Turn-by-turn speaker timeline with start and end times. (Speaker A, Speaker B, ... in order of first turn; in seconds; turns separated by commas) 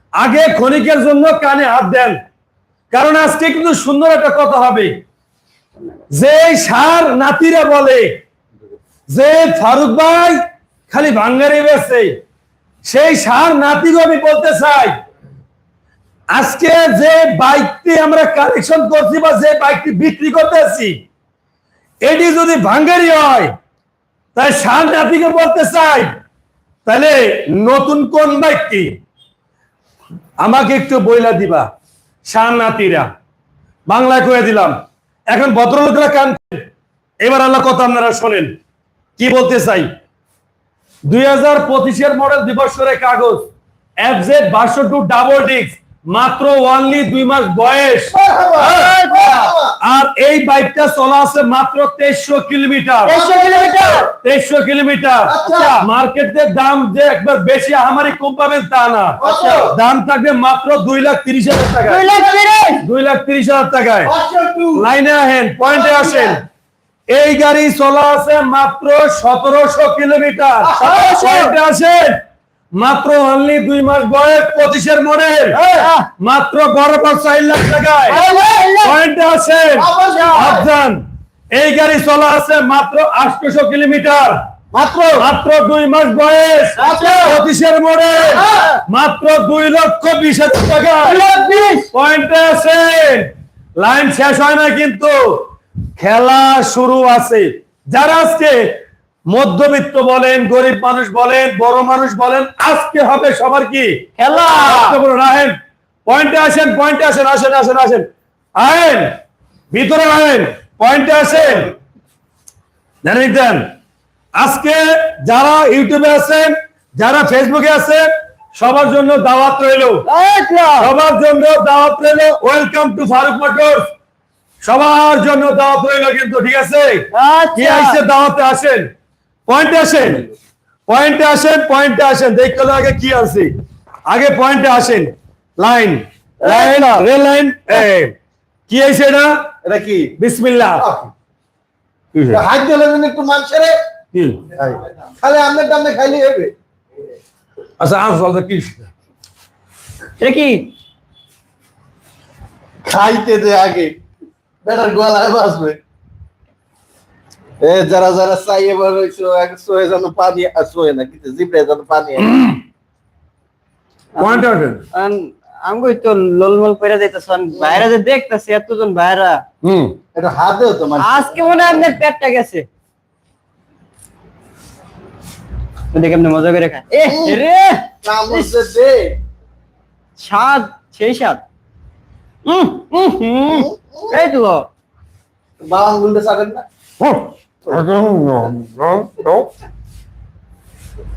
Speaker A: 0.2-2.2, Speaker A: 2.9-4.9, Speaker A: 6.1-8.1, Speaker A: 9.1-12.1, Speaker A: 12.8-15.0, Speaker A: 16.3-21.0, Speaker A: 22.1-23.5, Speaker A: 24.4-26.1, Speaker A: 26.9-28.9, Speaker A: 30.4-31.7, Speaker A: 32.3-33.1, Speaker A: 33.9-34.8, Speaker A: 35.3-36.7, Speaker A: 37.2-38.5, Speaker A: 39.2-39.9, Speaker A: 41.1-43.5, Speaker A: 44.0-49.3, Speaker B: 48.1-49.8, Speaker C: 48.6-49.5, Speaker A: 49.8-53.2, Speaker C: 53.0-54.1, Speaker B: 53.1-54.1, Speaker A: 54.1-62.1, Speaker B: 55.2-55.9, Speaker B: 59.2-59.8, Speaker C: 59.2-59.7, Speaker C: 61.9-62.8, Speaker A: 62.8-64.1, Speaker B: 64.0-64.9, Speaker A: 64.7-66.4, Speaker B: 65.7-66.4, Speaker A: 67.1-72.2, Speaker B: 70.6-71.2, Speaker C: 70.8-71.5, Speaker A: 72.7-75.6, Speaker C: 75.6-76.1, Speaker A: 76.2-78.2, Speaker C: 78.1-79.0, Speaker A: 78.8-84.4, Speaker B: 79.8-80.7, Speaker C: 80.1-80.6, Speaker B: 84.7-85.2, Speaker A: 85.2-91.2, Speaker B: 86.8-87.3, Speaker C: 86.8-87.4, Speaker B: 88.3-88.7, Speaker C: 88.3-88.8, Speaker C: 91.0-91.9, Speaker A: 91.9-109.2, Speaker C: 104.2-105.0, Speaker A: 109.7-111.7, Speaker A: 113.0-113.7, Speaker A: 114.4-120.1, Speaker C: 120.1-120.9, Speaker A: 120.8-123.9, Speaker A: 124.6-128.9, Speaker C: 127.1-128.0, Speaker A: 129.5-130.3, Speaker A: 130.9-133.5, Speaker A: 134.1-138.1, Speaker C: 136.4-137.1, Speaker A: 138.7-139.4, Speaker B: 139.6-140.2, Speaker A: 140.2-140.9, Speaker B: 140.8-141.1, Speaker A: 142.1-142.4, Speaker B: 142.3-143.8, Speaker A: 144.1-144.6, Speaker B: 144.6-146.5, Speaker A: 147.8-148.9, Speaker C: 150.2-150.7, Speaker B: 152.8-153.9, Speaker B: 154.6-155.8, Speaker B: 157.6-162.3, Speaker A: 162.2-162.6, Speaker C: 164.2-169.4, Speaker A: 164.2-164.8, Speaker A: 169.6-170.0, Speaker B: 170.2-171.2, Speaker C: 171.0-172.7, Speaker C: 175.9-178.5, Speaker B: 177.1-177.4, Speaker B: 178.0-179.2, Speaker C: 180.2-181.4, Speaker C: 182.5-184.7, Speaker B: 183.5-184.2, Speaker B: 185.6-186.7, Speaker A: 187.0-189.5